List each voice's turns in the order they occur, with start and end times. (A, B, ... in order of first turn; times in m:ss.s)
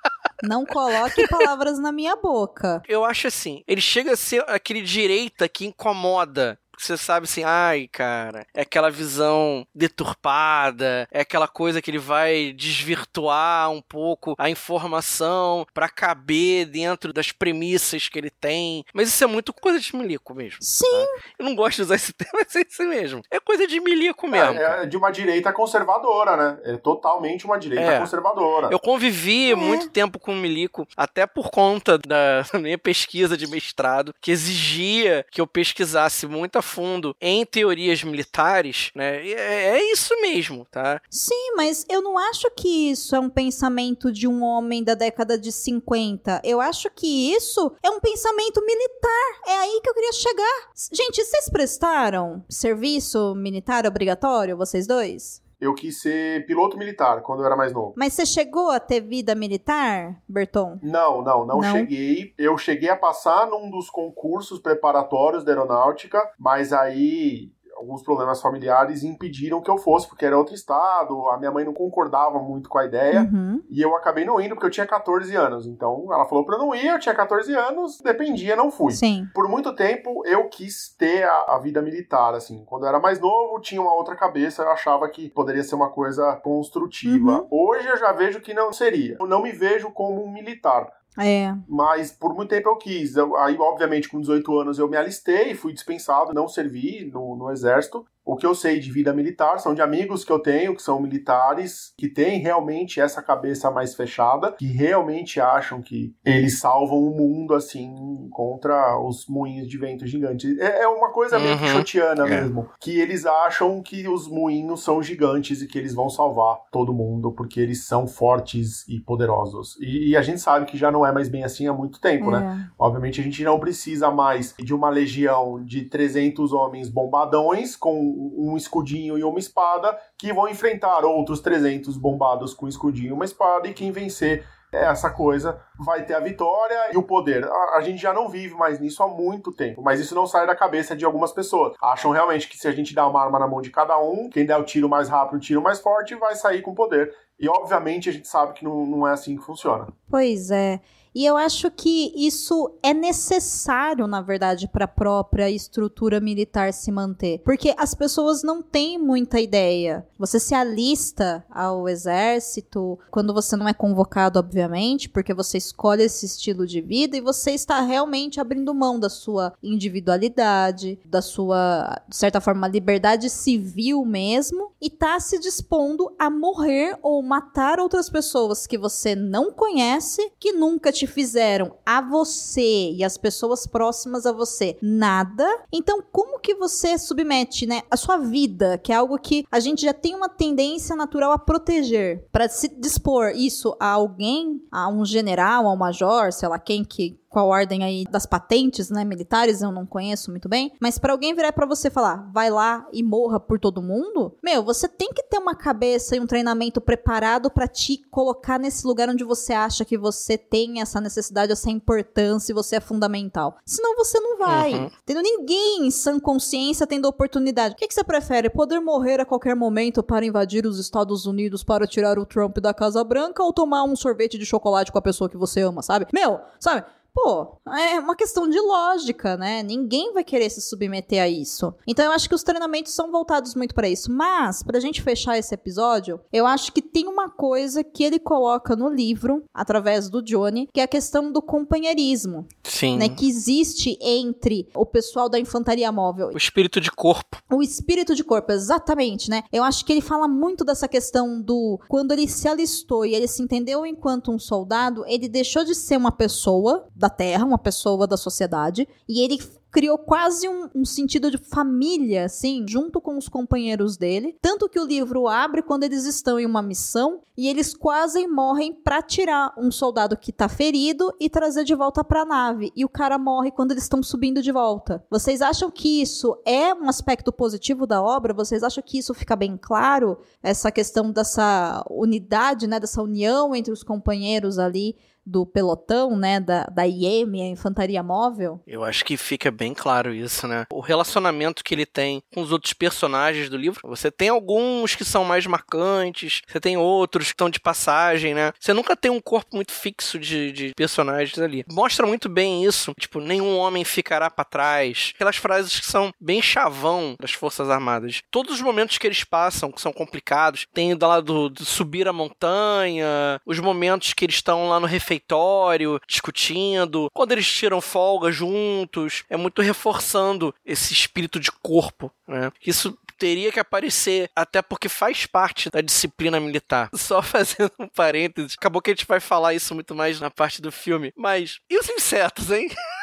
0:00.4-0:02.8 A
0:02.9-0:24.8 B
0:20.6-0:21.1 A
0:24.3-0:28.8 C
0:27.8-0:28.1 B
0:28.7-0:41.0 B
0:29.5-0:29.9 A
0:41.1-0:55.4 A
0:55.6-0:57.9 C
0:58.0-1:00.8 A
1:00.8-1:30.9 C
1:01.5-1:01.9 A
1:13.1-1:13.6 A
1:18.9-1:19.3 A
1:27.0-1:27.4 A
1:31.2-1:31.6 A
1:31.7-2:29.9 C
1:51.3-1:52.5 B
2:02.2-2:02.7 A
2:30.1-4:06.4 A
3:34.4-3:34.9 B
4:02.6-4:03.2 B
4:06.3-4:07.4 B
4:07.5-4:48.6 A
4:48.7-5:32.7 B